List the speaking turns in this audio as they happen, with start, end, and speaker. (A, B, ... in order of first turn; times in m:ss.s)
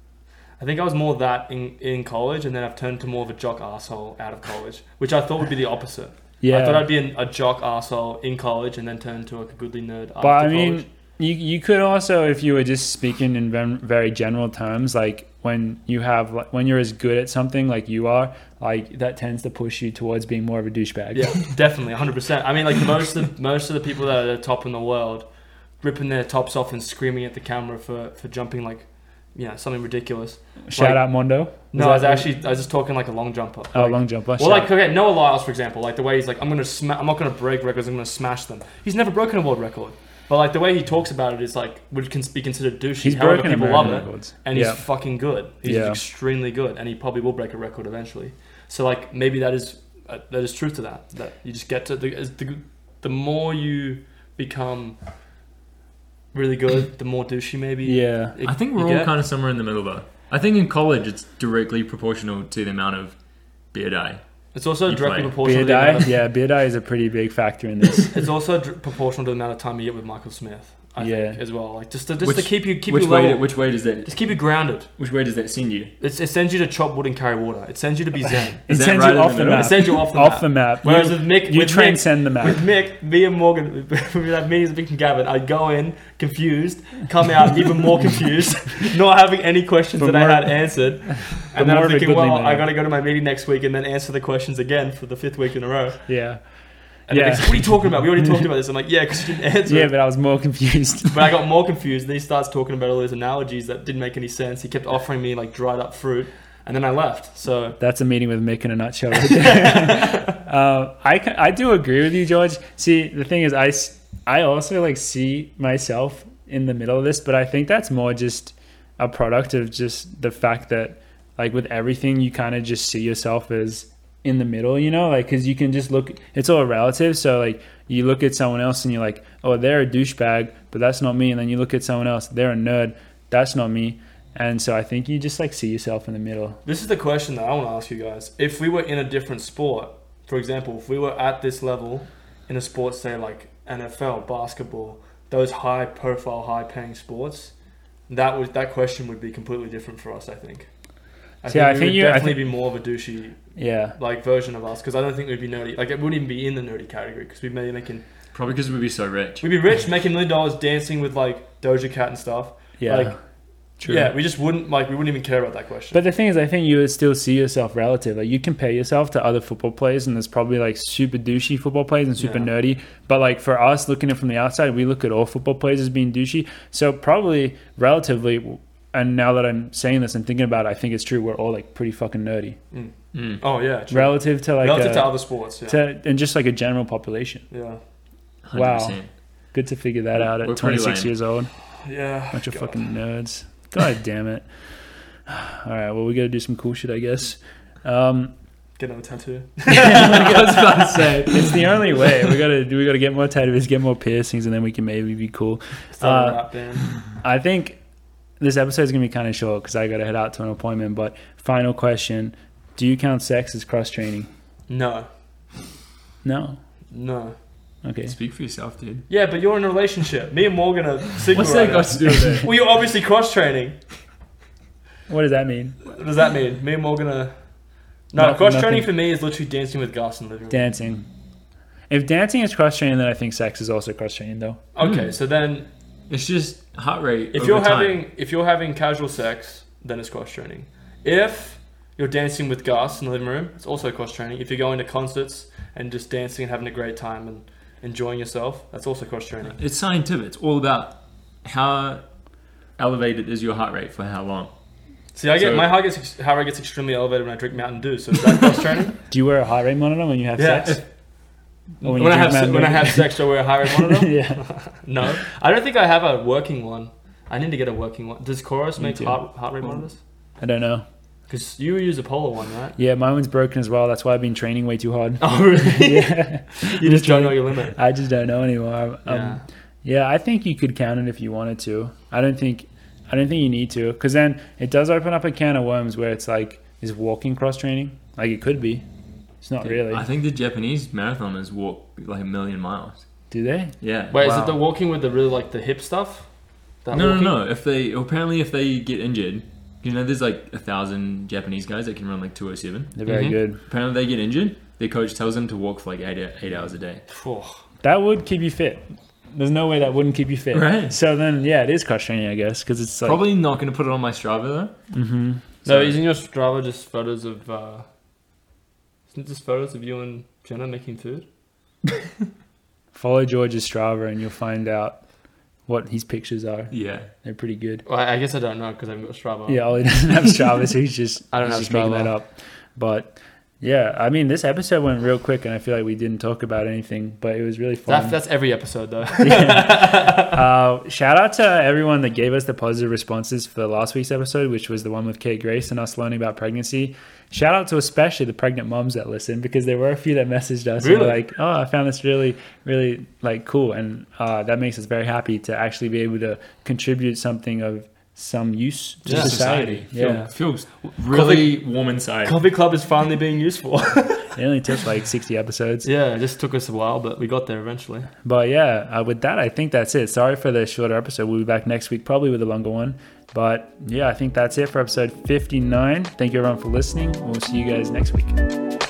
0:00.6-0:10.9 A
0:06.4-0:06.9 B
0:10.2-0:21.4 B
0:21.1-0:55.0 A
0:30.7-0:32.3 B
0:33.7-0:34.7 B
0:43.0-0:44.9 B
0:45.6-0:46.0 B
0:56.3-0:59.1 A
0:57.8-0:58.3 B
0:58.4-1:03.2 C
1:03.7-1:04.2 C
1:04.5-1:06.2 A
1:04.8-1:05.4 C
1:05.4-1:08.2 B
1:08.1-1:14.9 A
1:11.0-1:11.4 B
1:12.2-1:15.9 C
1:16.0-1:18.6 A
1:18.7-1:20.0 C
1:18.7-1:22.6 B
1:19.5-1:36.1 A
1:30.0-1:31.0 B
1:31.6-1:32.7 B
1:36.1-1:38.1 B
1:37.1-1:39.9 A
1:39.7-1:41.2 B
1:41.1-1:47.8 A
1:47.8-2:16.6 B
1:49.3-1:50.4 A
2:16.6-2:27.5 A
2:28.1-2:30.7 A
2:31.4-2:38.0 A
2:31.5-2:32.4 B
2:33.6-2:34.0 B
2:38.3-2:39.4 C
2:39.4-2:43.2 A
2:42.8-2:43.2 B
2:43.9-2:46.0 A
2:45.9-3:02.6 B
2:52.2-2:52.5 A
3:02.7-3:05.8 A
3:03.1-3:03.4 C
3:03.9-3:07.5 B
3:07.5-3:07.8 A
3:08.4-3:09.1 C
3:08.5-3:09.0 B
3:09.5-3:11.5 B
3:10.3-3:11.1 C
3:11.8-3:12.8 A
3:12.3-3:14.5 B
3:15.3-3:18.3 B
3:18.8-3:20.9 A
3:19.7-3:22.2 C
3:21.3-3:26.4 B
3:26.0-3:26.9 A
3:27.2-3:27.8 B
3:28.4-3:34.3 B
3:34.7-3:35.1 A
3:36.2-3:36.6 B
3:36.9-3:37.4 A
3:37.8-3:38.1 B
3:38.0-3:39.1 C
3:39.1-3:43.8 A
3:41.3-3:42.5 C
3:45.1-3:45.9 B
3:45.8-3:47.3 A
3:48.1-3:50.6 A
3:48.2-3:48.9 B
3:50.5-3:51.1 B
3:51.9-3:54.6 B
3:54.8-3:55.7 A
3:54.8-3:55.1 C
3:56.1-3:58.0 C
3:57.3-4:09.6 A
4:09.6-4:12.0 C
4:12.8-4:14.5 C
4:15.1-4:19.0 A
4:15.4-4:15.7 C
4:19.1-4:20.8 B
4:20.4-4:20.9 A
4:21.8-4:30.0 A
4:21.8-4:24.6 B
4:28.8-4:29.2 B
4:30.4-4:30.8 B
4:31.3-4:32.8 A
4:32.8-4:48.8 B
4:35.2-4:37.8 A
4:39.1-4:39.4 A
4:49.4-4:50.0 B
4:49.6-4:53.0 C
4:53.3-4:54.4 B
4:53.8-4:54.5 C
4:54.1-4:56.3 A
4:56.8-4:57.4 A
4:56.9-5:03.1 C
5:03.0-5:03.6 B
5:03.1-5:03.4 A
5:03.6-5:07.0 C
5:07.1-5:07.6 A
5:07.8-5:13.2 B
5:10.5-5:11.0 C
5:13.0-5:14.7 C
5:14.9-5:15.4 B
5:15.6-5:17.8 A
5:15.7-5:15.9 C
5:19.1-5:21.3 A
5:22.9-5:25.0 B
5:25.7-5:27.8 B
5:26.7-5:27.1 C
5:27.9-5:29.6 A
5:29.5-5:38.2 B
5:31.3-5:32.1 A
5:37.9-5:40.4 A
5:39.2-6:00.2 B
5:50.8-5:51.2 A
5:59.0-6:00.3 A
5:59.1-6:02.4 C
6:00.8-6:01.6 A
6:02.2-6:04.4 A
6:04.4-6:05.9 B
6:05.8-6:08.1 A
6:08.2-6:18.4 B